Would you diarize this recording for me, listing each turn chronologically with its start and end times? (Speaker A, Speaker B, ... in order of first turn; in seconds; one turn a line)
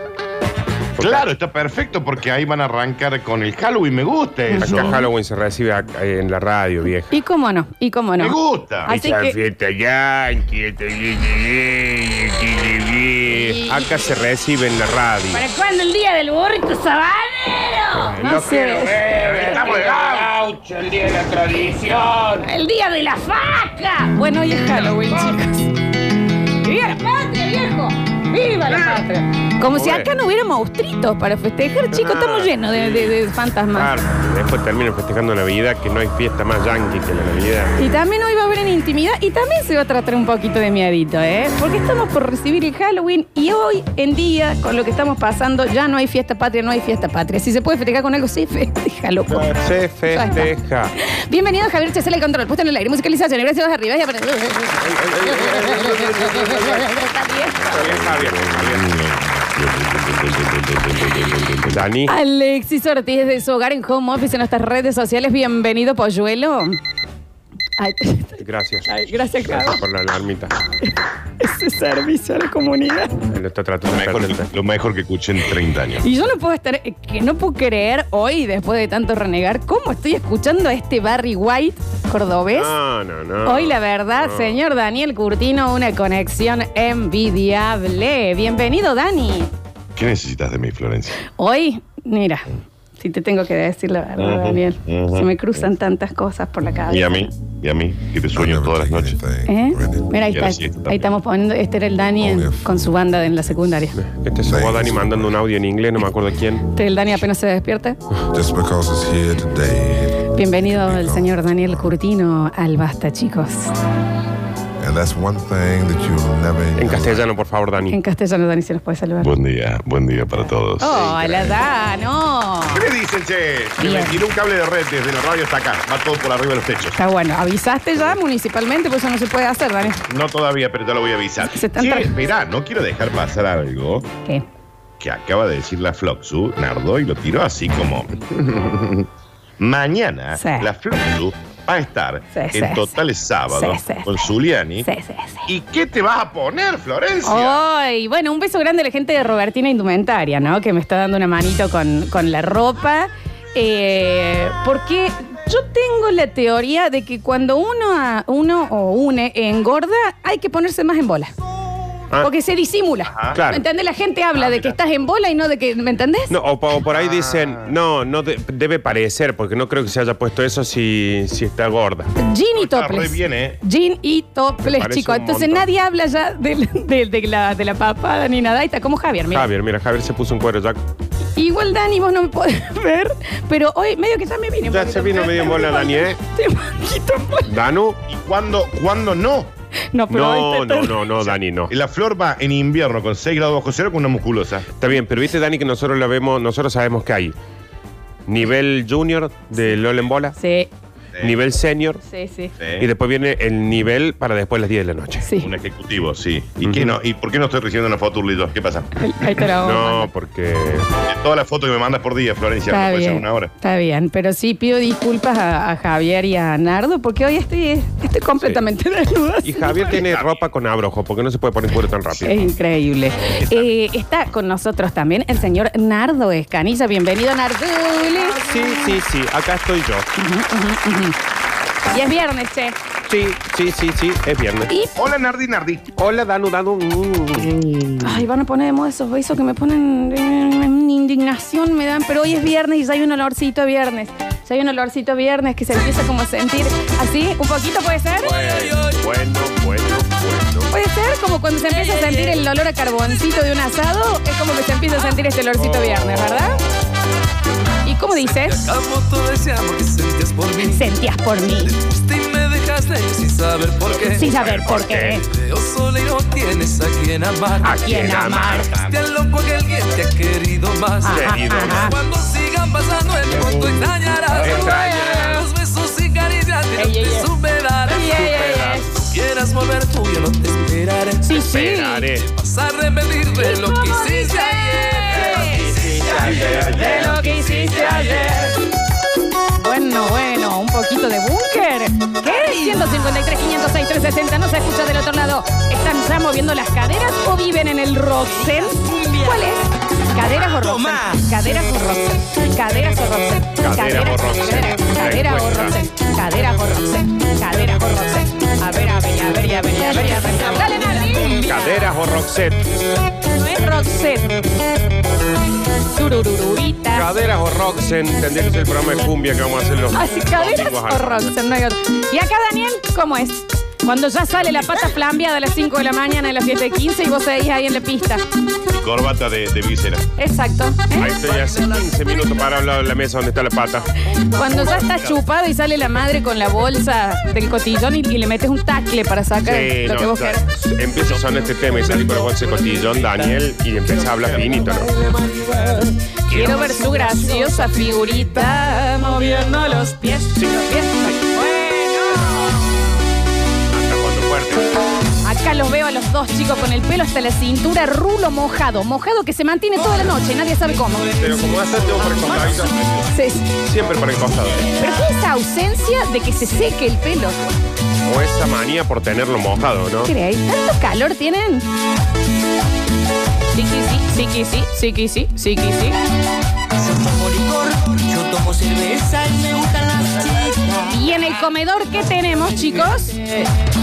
Speaker A: 1.0-1.3
Speaker B: 1.0-5.0
Speaker C: 4.5-5.1
Speaker A: 4.6-7.2
Speaker C: 7.1-8.4
Speaker B: 8.2-8.9
Speaker C: 8.9-9.4
Speaker A: 8.9-15.4
Speaker C: 13.3-13.8
Speaker C: 15.3-19.9
Speaker A: 18.0-22.4
Speaker B: 19.3-20.2
Speaker C: 22.4-25.7
Speaker C: 26.6-33.9
Speaker A: 29.7-30.1
Speaker A: 31.9-33.2
Speaker A: 33.7-37.8
Speaker C: 37.8-57.8
Speaker A: 49.3-51.0
Speaker A: 54.8-57.0
Speaker B: 57.6-61.8
Speaker A: 57.7-58.9
Speaker A: 61.7-62.1
Speaker C: 62.1-66.8
Speaker C: 67.8-69.8
Speaker A: 68.4-68.9
Speaker A: 69.4-70.6
Speaker C: 70.8-73.2
Speaker A: 73.3-74.5
Speaker B: 73.9-76.0
Speaker C: 76.0-82.7
Speaker A: 82.5-84.6
Speaker C: 83.4-89.5
Speaker B: 90.0-91.2
Speaker C: 91.3-97.3
Speaker B: 94.2-95.3
Speaker B: 96.9-99.2
Speaker D: 98.3-100.4
Speaker C: 99.5-104.0
Speaker B: 100.3-101.1
Speaker D: 102.2-103.9
Speaker A: 104.0-106.6
Speaker D: 104.4-105.3
Speaker C: 106.7-108.0
Speaker D: 108.3-112.0
Speaker C: 110.3-113.7
Speaker D: 114.8-117.3
Speaker A: 116.8-118.0
Speaker C: 117.8-119.3
Speaker B: 119.2-121.6
Speaker C: 120.8-122.9
Speaker B: 122.7-127.0
Speaker C: 123.8-124.2
Speaker C: 127.0-130.0
Speaker B: 130.1-134.1
Speaker C: 131.4-132.1
Speaker B: 135.0-139.1
Speaker B: 139.6-144.9
Speaker C: 140.4-140.7
Speaker C: 142.3-142.9
Speaker C: 143.5-144.1
Speaker C: 144.8-145.5
Speaker B: 145.5-147.6
Speaker C: 147.2-161.3
Speaker C: 162.2-166.3
Speaker B: 163.1-163.4
Speaker A: 163.4-163.6
Speaker B: 164.4-164.8
Speaker A: 166.3-172.1
Speaker B: 166.9-167.7
Speaker C: 172.2-179.5
Speaker B: 172.6-173.6
Speaker A: 174.7-175.7
Speaker A: 179.3-180.8
Speaker C: 181.4-187.6
Speaker A: 184.7-186.2
Speaker A: 187.5-188.0
Speaker B: 188.1-189.5
Speaker C: 189.9-191.0
Speaker A: 190.1-191.7
Speaker B: 191.2-194.7
Speaker A: 194.7-197.4
Speaker A: 198.3-200.4
Speaker C: 200.4-200.7
Speaker A: 201.2-202.0
Speaker C: 202.1-202.5
Speaker B: 202.6-202.9
Speaker A: 202.8-205.3
Speaker B: 205.4-208.9
Speaker A: 206.6-206.9
Speaker C: 209.0-210.1
Speaker A: 209.5-210.9
Speaker B: 211.0-213.5
Speaker C: 212.7-220.0
Speaker A: 219.4-222.6
Speaker B: 219.9-220.4
Speaker C: 222.2-228.5
Speaker A: 228.2-230.1
Speaker C: 230.2-231.2
Speaker C: 231.9-232.8
Speaker A: 233.1-234.7
Speaker B: 234.9-235.9
Speaker A: 236.0-238.2
Speaker C: 238.0-248.4
Speaker A: 248.2-250.7
Speaker E: 248.4-249.0
Speaker C: 250.7-256.6
Speaker E: 251.7-252.4
Speaker A: 255.6-256.6
Speaker C: 257.8-258.7
Speaker E: 258.2-260.9
Speaker C: 260.6-261.7
Speaker E: 261.6-264.4
Speaker B: 263.7-264.9
Speaker C: 264.1-265.3
Speaker A: 264.4-265.2
Speaker E: 265.3-278.2
Speaker C: 267.6-268.7
Speaker A: 267.6-268.6
Speaker B: 268.6-268.9
Speaker C: 271.0-272.0
Speaker A: 271.1-271.9
Speaker A: 274.4-275.4
Speaker C: 274.4-275.4
Speaker C: 276.8-277.3
Speaker C: 277.9-278.9
Speaker A: 278.0-278.9
Speaker E: 278.9-281.4
Speaker C: 281.2-282.1
Speaker A: 281.5-282.3
Speaker E: 282.2-288.3
Speaker C: 283.4-285.8
Speaker A: 285.3-287.2
Speaker C: 286.4-288.6
Speaker C: 289.6-311.9
Speaker F: 298.9-299.3
Speaker F: 300.7-301.2
Speaker A: 303.6-305.8
Speaker A: 311.4-312.7
Speaker C: 313.3-314.4
Speaker C: 315.9-317.1
Speaker A: 316.9-321.4
Speaker C: 319.9-328.2
Speaker B: 328.7-330.1
Speaker C: 330.2-331.1
Speaker A: 330.9-334.0
Speaker C: 334.2-340.4
Speaker B: 334.3-335.2
Speaker A: 339.4-345.6
Speaker B: 343.9-344.6
Speaker C: 346.3-352.9
Speaker A: 346.3-346.6
Speaker A: 353.7-354.7
Speaker C: 355.2-361.2
Speaker A: 361.2-362.8
Speaker B: 361.3-363.1
Speaker C: 363.0-363.5
Speaker A: 363.5-364.7
Speaker C: 364.6-367.4
Speaker A: 368.1-370.1
Speaker C: 370.1-371.6
Speaker C: 373.5-376.0
Speaker F: 376.8-380.9
Speaker C: 380.9-383.5